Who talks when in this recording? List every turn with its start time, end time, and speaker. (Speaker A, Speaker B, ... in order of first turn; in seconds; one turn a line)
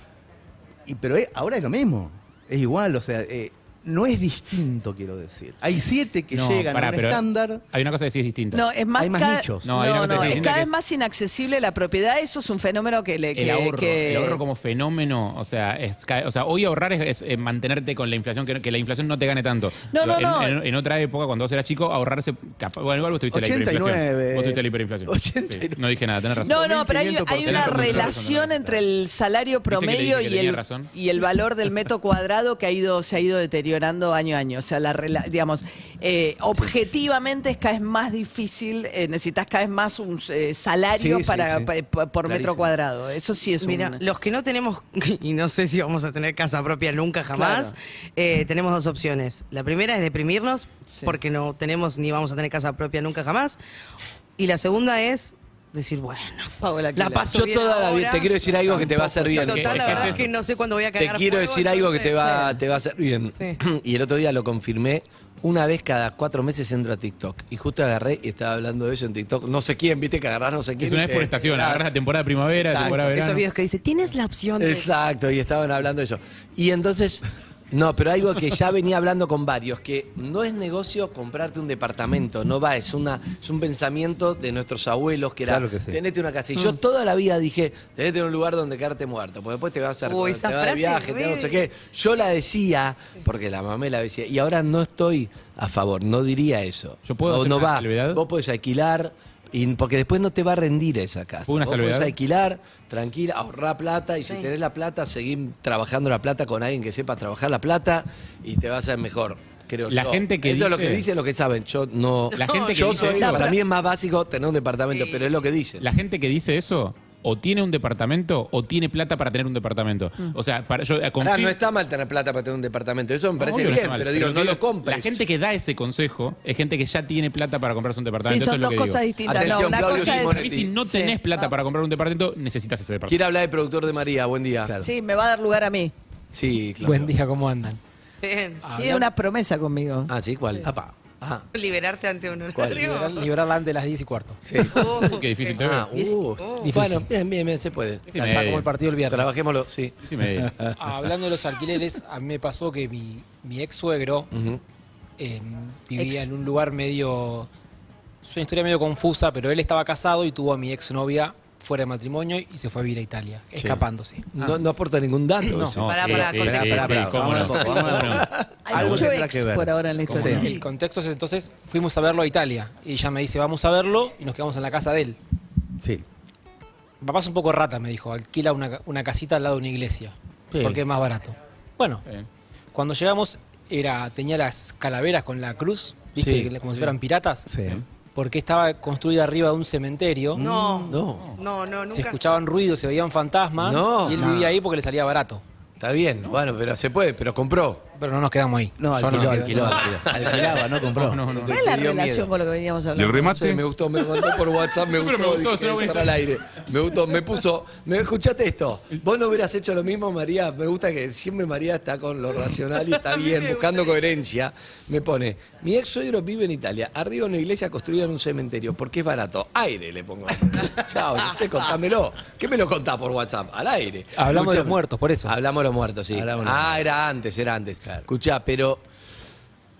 Speaker A: 0.8-7.6
Speaker B: 6.3-8.7
Speaker C: 8.5-14.4
Speaker A: 8.9-10.6
Speaker B: 9.6-10.7
Speaker B: 13.3-26.6
Speaker C: 19.9-20.6
Speaker A: 23.3-28.2
Speaker C: 26.4-44.0
Speaker B: 27.4-28.8
Speaker B: 29.7-30.9
Speaker A: 41.0-41.7
Speaker A: 42.2-42.7
Speaker D: 43.6-53.6
Speaker C: 47.3-47.7
Speaker C: 50.9-51.1
Speaker D: 54.4-62.6
Speaker C: 56.6-57.3
Speaker E: 57.0-60.2
Speaker A: 58.7-60.2
Speaker B: 59.7-60.2
Speaker E: 61.0-71.9
Speaker B: 70.8-73.4
Speaker D: 72.6-74.9
Speaker E: 72.7-73.0
Speaker E: 74.6-115.8
Speaker A: 85.5-86.0
Speaker D: 90.0-91.7
Speaker B: 97.0-98.2
Speaker B: 101.5-102.1
Speaker D: 104.2-104.5
Speaker B: 109.9-111.0
Speaker D: 112.3-113.2
Speaker B: 112.4-113.5
Speaker C: 113.2-113.6
Speaker D: 114.9-115.2
Speaker B: 115.8-121.6
Speaker E: 121.2-125.2
Speaker B: 123.4-133.2
Speaker C: 128.2-131.2
Speaker E: 129.2-130.7
Speaker E: 133.1-134.8
Speaker A: 134.6-134.9
Speaker C: 134.8-135.9
Speaker E: 136.3-137.1
Speaker F: 136.8-137.8
Speaker D: 138.2-138.6
Speaker F: 138.6-139.1
Speaker C: 138.8-140.1
Speaker E: 140.1-141.4
Speaker A: 140.6-140.9
Speaker D: 141.5-143.2
Speaker E: 142.5-143.3
Speaker F: 143.1-144.4
Speaker E: 144.4-148.5
Speaker D: 144.7-145.6
Speaker B: 145.0-145.9
Speaker C: 145.9-146.2
Speaker D: 146.4-146.7
Speaker F: 146.6-147.1
Speaker B: 148.1-148.7
Speaker F: 148.2-149.4
Speaker E: 149.1-149.9
Speaker B: 150.0-150.5
Speaker A: 150.4-150.7
Speaker F: 150.8-154.3
Speaker E: 154.3-154.6
Speaker F: 155.2-157.5
Speaker D: 156.0-156.2
Speaker F: 158.2-164.2
Speaker E: 164.3-165.8
Speaker F: 165.4-165.7
Speaker B: 165.8-169.1
Speaker D: 165.8-167.8
Speaker A: 166.2-170.5
Speaker E: 168.1-168.7
Speaker C: 168.7-170.6
Speaker E: 170.2-170.6
Speaker F: 170.2-175.2
Speaker A: 175.8-176.0
Speaker F: 177.0-182.0
Speaker A: 180.5-180.8
Speaker F: 182.7-187.5
Speaker E: 186.2-186.5
Speaker A: 186.2-186.5
Speaker A: 187.5-187.8
Speaker F: 188.1-190.4
Speaker A: 190.3-191.1
Speaker D: 190.4-192.2
Speaker E: 190.9-191.3
Speaker F: 191.9-195.4
Speaker E: 193.6-194.6
Speaker E: 195.8-197.8
Speaker F: 197.9-199.8
Speaker A: 198.8-201.9
Speaker B: 199.1-199.8
Speaker E: 200.0-200.7
Speaker B: 200.9-201.6
Speaker E: 201.3-202.3
Speaker C: 201.4-203.4
Speaker B: 202.9-203.6
Speaker E: 203.1-228.8
Speaker B: 204.8-206.2
Speaker F: 224.2-225.3
Speaker A: 226.1-226.9